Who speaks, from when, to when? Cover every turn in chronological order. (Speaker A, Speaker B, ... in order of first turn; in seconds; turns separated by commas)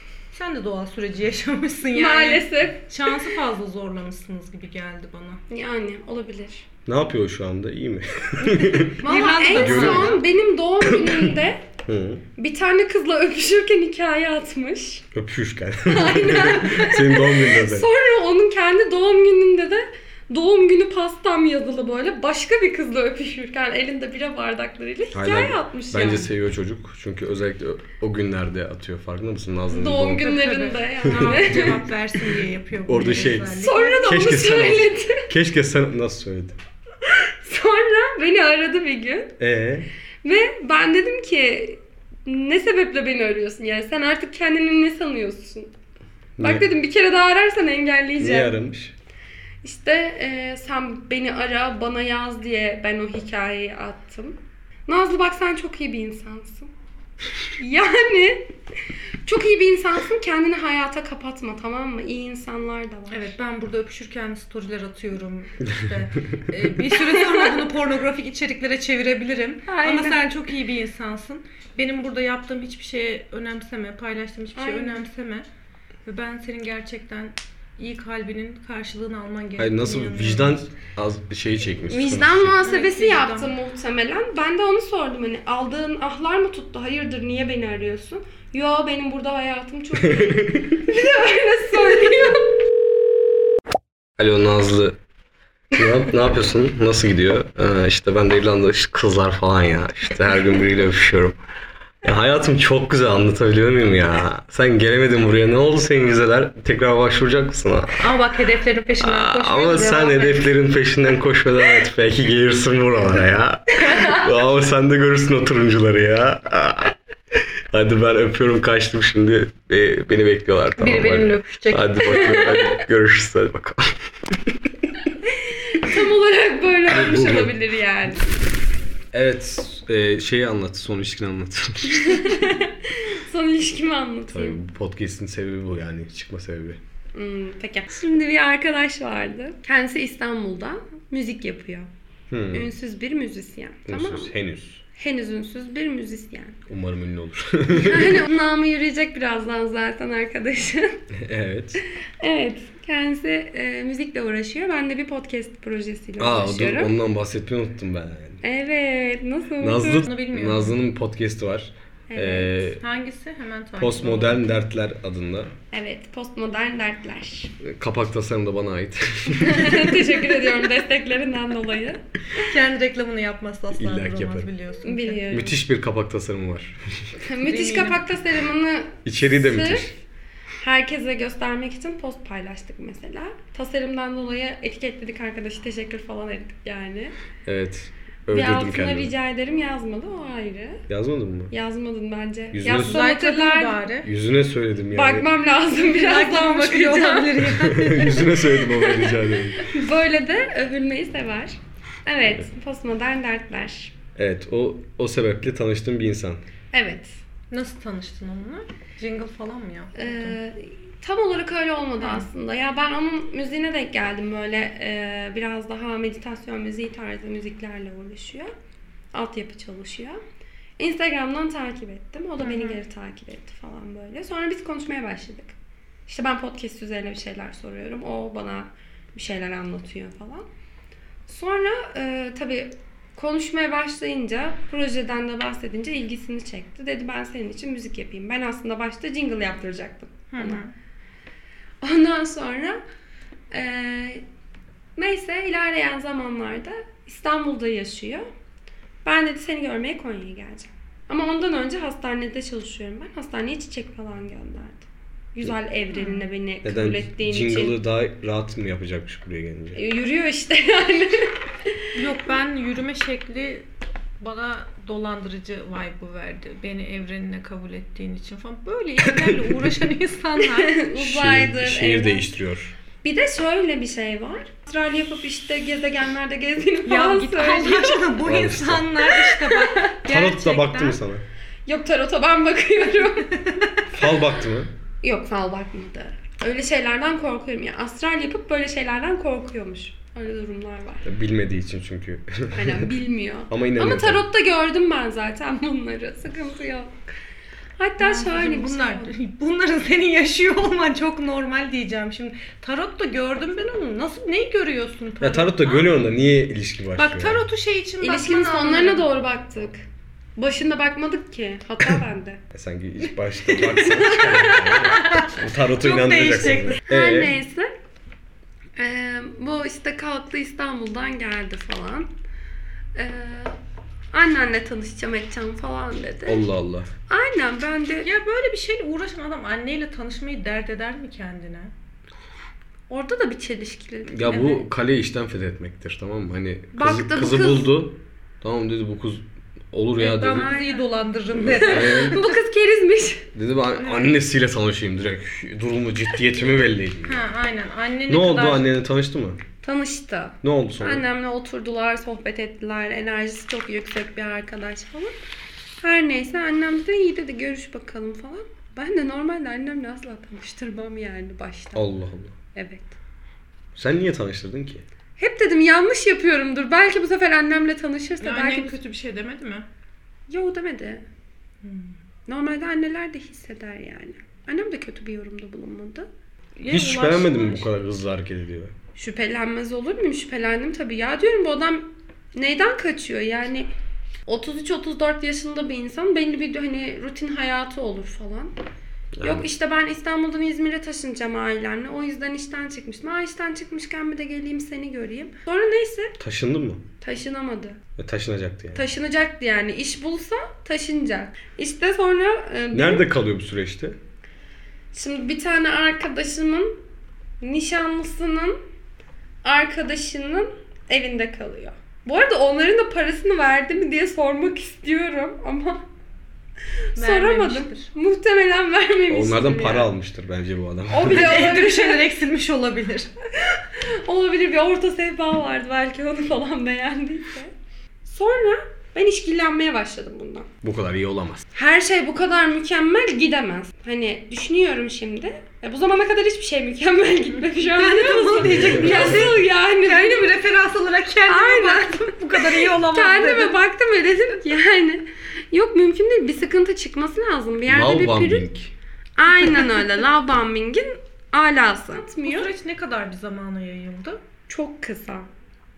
Speaker A: 0.3-5.4, Speaker B: 1.9-3.2, Speaker B: 5.5-6.6, Speaker C: 6.8-8.9, Speaker A: 8.4-10.2, Speaker B: 9.0-11.6, Speaker C: 9.5-10.2, Speaker C: 11.8-12.2, Speaker B: 12.4-15.1, Speaker C: 15.1-17.9, Speaker B: 15.8-26.3, Speaker C: 25.1-30.3, Speaker B: 29.7-31.8, Speaker A: 30.2-34.1, Speaker C: 31.1-31.8, Speaker C: 32.9-36.6, Speaker B: 33.5-35.3, Speaker B: 37.1-39.3, Speaker C: 39.4-39.9, Speaker B: 40.2-45.7, Speaker C: 46.4-46.6, Speaker B: 46.4-48.5, Speaker C: 48.2-48.9, Speaker B: 49.6-56.7, Speaker B: 57.6-58.5, Speaker B: 59.2-63.3, Speaker A: 63.1-75.5, Speaker B: 67.1-67.4, Speaker B: 69.7-70.2, Speaker B: 74.5-75.0, Speaker A: 76.0-80.7, Speaker C: 79.6-82.5, Speaker B: 81.9-92.5, Speaker A: 82.6-83.5, Speaker C: 90.1-90.7, Speaker C: 94.2-95.0, Speaker C: 95.7-101.3, Speaker C: 102.0-108.1, Speaker A: 108.0-110.5, Speaker C: 109.0-116.9, Speaker C: 117.7-123.9, Speaker A: 120.8-122.5, Speaker B: 125.7-128.2, Speaker C: 126.9-127.5, Speaker C: 129.1-132.4, Speaker B: 131.9-134.6, Speaker C: 134.3-136.8, Speaker B: 137.1-141.9, Speaker C: 142.3-142.7, Speaker B: 142.5-144.3, Speaker C: 143.9-144.8, Speaker B: 144.9-146.6, Speaker C: 146.7-148.2, Speaker B: 147.7-150.9, Speaker C: 151.2-151.8, Speaker B: 152.2-156.9, Speaker C: 156.2-158.4, Speaker B: 158.4-160.1, Speaker C: 159.6-162.8, Speaker A: 160.0-160.8, Speaker B: 162.1-162.7, Speaker A: 162.8-164.4, Speaker C: 163.8-165.5, Speaker B: 165.7-167.5, Speaker C: 167.6-170.2, Speaker B: 169.4-172.0, Speaker A: 172.4-175.2, Speaker C: 173.7-174.5, Speaker B: 174.8-175.6, Speaker C: 175.3-177.1, Speaker B: 177.2-179.9, Speaker A: 177.4-178.0, Speaker C: 179.0-179.9, Speaker B: 180.6-187.1, Speaker C: 187.4-189.1, Speaker B: 188.3-190.8, Speaker C: 190.9-191.5, Speaker B: 191.5-193.8, Speaker C: 192.5-193.0, Speaker A: 192.7-194.1, Speaker C: 194.0-195.3, Speaker B: 194.9-197.4, Speaker A: 195.8-198.2, Speaker C: 197.5-199.7, Speaker B: 198.6-203.9, Speaker C: 204.2-206.4, Speaker B: 206.7-207.2, Speaker A: 207.5-210.4, Speaker B: 209.9-218.5, Speaker A: 212.0-212.3, Speaker B: 219.1-220.2, Speaker B: 220.8-225.5, Speaker A: 222.4-222.8, Speaker B: 226.1-230.4, Speaker B: 231.3-240.7, Speaker A: 240.3-240.7, Speaker B: 241.8-242.8, Speaker B: 243.5-244.2, Speaker B: 245.0-248.3, Speaker B: 249.0-257.8, Speaker A: 255.9-256.2, Speaker C: 256.6-259.8, Speaker B: 259.7-261.3, Speaker A: 261.9-263.7, Speaker A: 264.2-270.8, Speaker C: 269.1-269.5, Speaker B: 270.6-272.3, Speaker C: 270.9-272.7, Speaker B: 273.0-278.2, Speaker A: 276.9-281.0, Speaker C: 278.2-278.9, Speaker B: 279.1-280.0, Speaker C: 280.1-281.2, Speaker B: 281.6-283.4, Speaker C: 283.9-284.7, Speaker B: 285.0-291.0, Speaker C: 291.0-292.9, Speaker B: 292.5-296.9, Speaker C: 293.5-294.2, Speaker B: 297.8-299.1, Speaker A: 298.0-305.9, Speaker C: 305.2-307.4, Speaker A: 306.9-309.1, Speaker B: 308.0-309.8, Speaker B: 310.4-312.4, Speaker C: 312.5-317.3, Speaker A: 314.2-316.8, Speaker B: 316.9-317.7, Speaker B: 318.8-322.1, Speaker B: 322.9-323.6, Speaker B: 324.1-326.4, Speaker C: 326.3-326.9, Speaker B: 327.1-328.1, Speaker A: 328.0-331.7, Speaker B: 332.9-334.6, Speaker C: 334.1-340.5, Speaker B: 336.7-337.7, Speaker A: 340.0-342.2, Speaker B: 340.2-340.9, Speaker C: 341.4-342.2, Speaker B: 341.5-343.3, Speaker C: 343.3-347.2, Speaker A: 347.0-348.7, Speaker C: 348.1-349.4, Speaker B: 349.6-355.1, Speaker C: 350.4-351.1, Speaker B: 355.8-361.8, Speaker C: 361.8-362.3, Speaker B: 362.5-362.9, Speaker C: 363.8-364.8, Speaker B: 365.2-368.8, Speaker A: 368.2-369.7, Speaker B: 370.3-371.0, Speaker A: 371.6-371.9, Speaker B: 372.3-376.1, Speaker A: 376.6-377.7, Speaker C: 376.7-378.7, Speaker B: 378.9-383.7, Speaker B: 384.2-388.5, Speaker C: 389.1-389.5, Speaker B: 389.2-396.1, Speaker C: 396.2-396.8, Speaker B: 397.0-397.8, Speaker C: 398.0-398.8, Speaker B: 398.7-403.1, Speaker C: 402.7-404.0, Speaker B: 404.9-406.8, Speaker B: 407.4-408.6, Speaker B: 409.4-415.8, Speaker A: 416.9-417.9, Speaker B: 416.9-419.9, Speaker C: 419.1-421.4, Speaker B: 420.9-422.0, Speaker A: 421.1-423.1, Speaker B: 423.5-427.5, Speaker B: 428.1-430.5, Speaker C: 430.6-431.4, Speaker B: 431.5-440.3, Speaker A: 437.5-443.6, Speaker C: 438.4-439.3, Speaker B: 441.3-448.5, Speaker C: 447.7-448.7, Speaker B: 449.2-452.5, Speaker A: 449.5-449.7, Speaker A: 452.1-454.2, Speaker B: 454.5-455.3